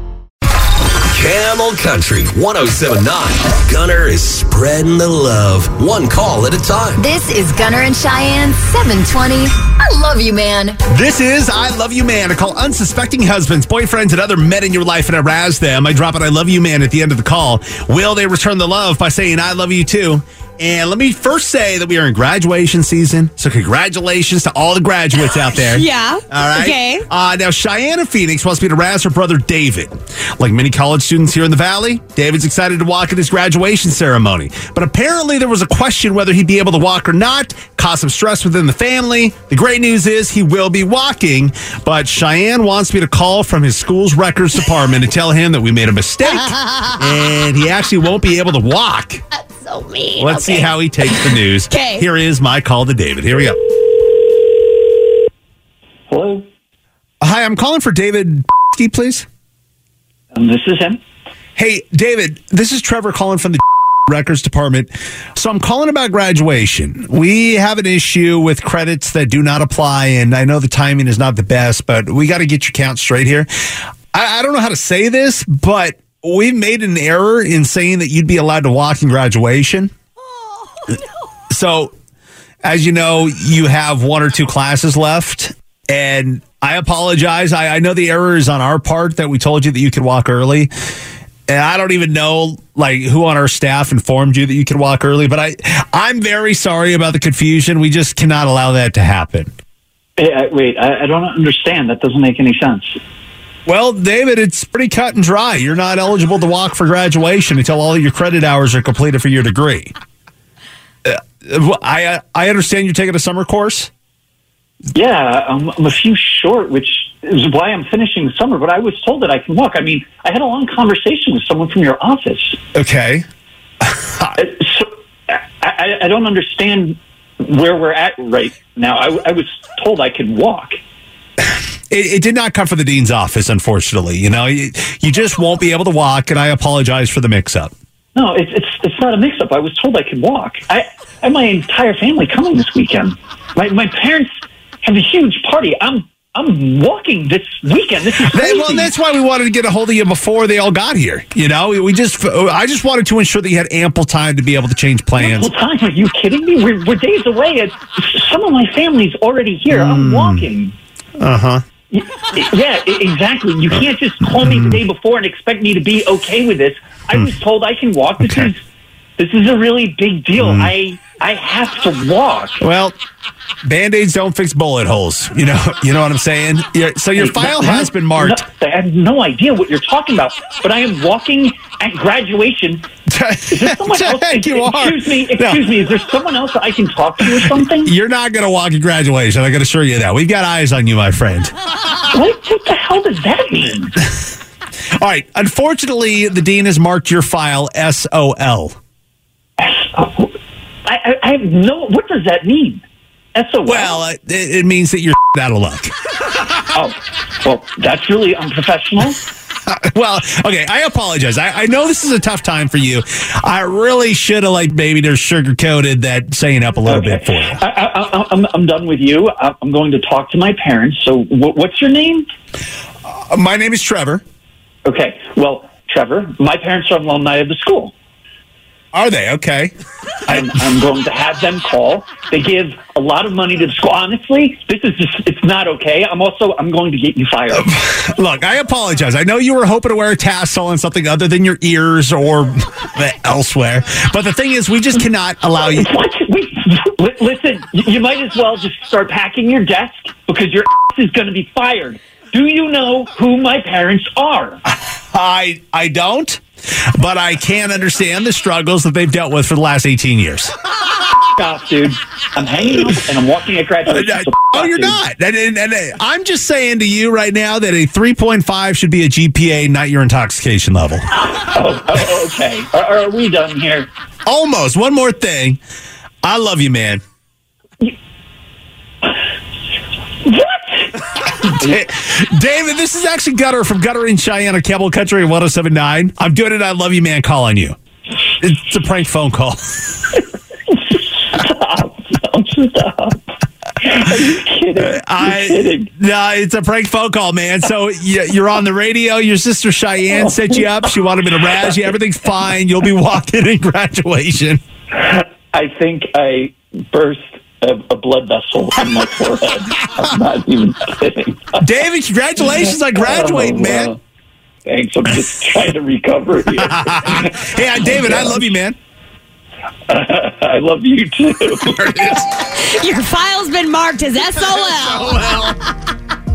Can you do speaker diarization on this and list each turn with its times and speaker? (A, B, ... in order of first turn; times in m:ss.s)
0:01.0-0:07.0 A
0:07.0-0:10.8 B
0:10.9-0:49.2 C
0:25.6-0:27.0 D
0:49.6-0:50.7 B
0:50.2-0:53.6 C
0:51.7-0:52.0 D
0:56.1-0:56.4 E
0:57.2-0:59.2 C
1:00.3-1:01.0 E
1:01.6-1:13.5 C
1:14.1-1:19.9 C
1:21.5-1:21.9 C
1:22.6-1:30.7 C
1:31.5-1:39.5 C
1:40.2-1:43.0 E
1:43.6-1:49.9 C
1:51.0-1:53.9 C
1:54.9-2:02.6 E
2:02.7-2:03.2 C
2:03.8-2:04.3 C
2:04.3-2:10.8 E
2:11.4-2:17.7 C
2:18.1-2:24.3 E
2:24.8-2:28.9 E
2:28.2-2:35.5 C
2:35.2-2:40.7 E
2:39.7-2:40.5 C
2:41.2-2:41.6 C
2:41.9-2:48.6 E
2:44.4-2:44.8 C
2:48.2-2:48.5 C
2:49.2-2:52.6 E
2:50.4-2:50.7 C
2:52.6-2:53.0 C
2:53.6-2:58.4 C
2:57.2-3:02.9 E
3:03.1-3:05.6 C
3:03.5-3:07.9 E
3:07.3-3:11.5 C
3:12.1-3:14.0 E
3:15.0-3:18.8 C
3:19.6-3:22.8 E
3:23.3-3:24.0 E
3:23.6-3:25.9 C
3:26.7-3:29.2 E
3:29.7-3:37.6 C
3:36.8-3:42.2 E
3:43.1-3:44.2 C
3:44.8-3:47.9 E
3:48.9-3:49.7 C
3:50.3-3:57.7 E
3:57.5-4:05.9 C
4:05.7-4:14.6 E
4:15.1-4:16.4 C
4:16.9-4:20.5 C
4:21.4-4:25.0 E
4:23.9-4:31.1 C
4:31.3-4:33.9 E
4:34.2-4:35.6 C
4:36.2-4:37.0 C
4:40.2-4:41.0 E
4:41.3-4:47.8 C
4:48.4-4:49.8 C
4:50.7-4:55.9 E
4:54.8-5:04.6 C
5:04.9-5:11.7 E
5:11.6-5:13.9 C
5:12.5-5:14.0 E
5:14.6-5:18.5 E
5:16.6-5:18.8 C
5:19.9-5:22.0 E
5:21.6-5:22.3 C
5:22.6-5:25.2 D
5:24.2-5:25.7 C